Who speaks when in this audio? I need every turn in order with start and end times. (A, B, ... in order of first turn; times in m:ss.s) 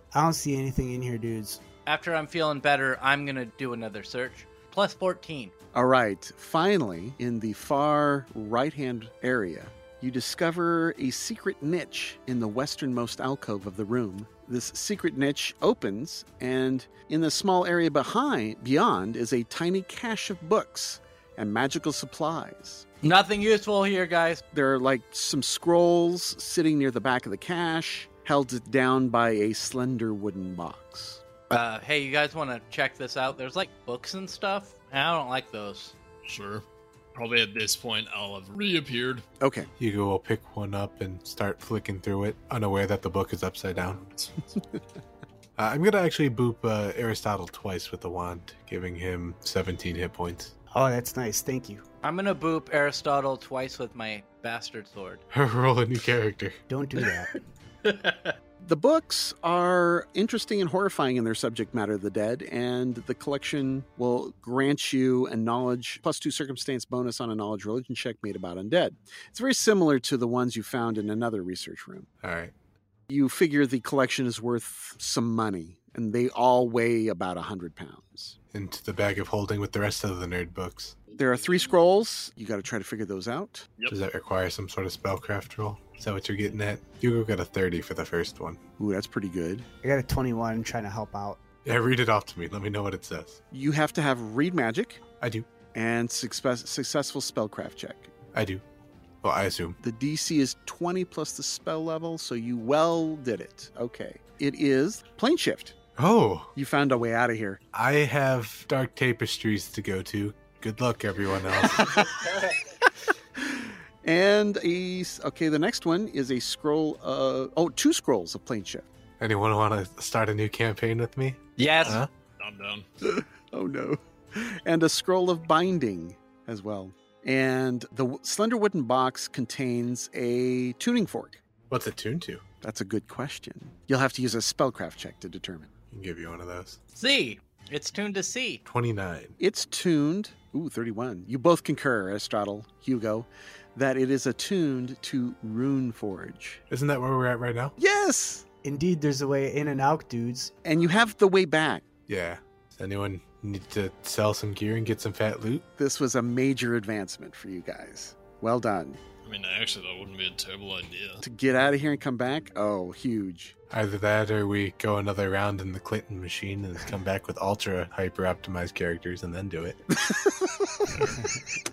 0:00.1-0:01.6 A
0:01.8-0:05.5 B
0:05.7-0:22.8 C
0:23.0-0:24.4 B
0:24.5-0:31.2 C
0:31.5-0:35.9 B
0:36.2-0:36.6 D
0:37.1-0:39.2 D
0:39.4-0:39.7 C
0:39.8-0:44.1 E
0:45.6-0:50.5 E
0:50.7-0:51.8 A
0:52.0-0:55.2 B
0:55.3-0:56.6 E
0:56.7-0:57.3 A
0:57.9-0:58.3 B
0:58.6-1:12.1 C
1:12.2-1:12.5 E
1:13.1-1:18.4 C
1:18.5-1:21.0 E
1:21.1-1:23.7 C
1:23.9-1:28.6 E
1:28.8-1:29.6 C
1:29.8-1:31.4 A
1:31.6-1:33.4 E
1:33.5-1:35.0 C
1:35.2-1:35.5 E
1:35.7-1:38.2 C
1:38.3-1:38.6 E
1:39.2-1:39.8 E
1:39.8-1:45.8 C
1:46.0-1:46.5 E
1:46.6-1:47.6 C
1:47.7-1:52.0 E
1:51.5-1:52.6 C
1:53.4-1:58.8 C
1:59.2-2:02.1 E
2:01.6-2:02.0 B
2:01.8-2:02.8 D
2:03.0-2:11.4 C
2:11.7-2:12.4 E
2:12.6-2:15.7 C
2:15.9-2:16.8 E
2:16.9-2:18.6 B
2:18.6-2:19.4 E
2:19.4-2:26.6 C
2:26.7-2:27.7 E
2:27.8-2:28.4 C
2:28.6-2:30.6 A
2:30.6-2:31.8 C
2:32.1-2:35.6 E
2:35.8-2:39.0 C
2:39.2-2:41.2 D
2:41.2-2:43.6 C
2:43.7-2:49.8 E
2:50.1-2:51.0 C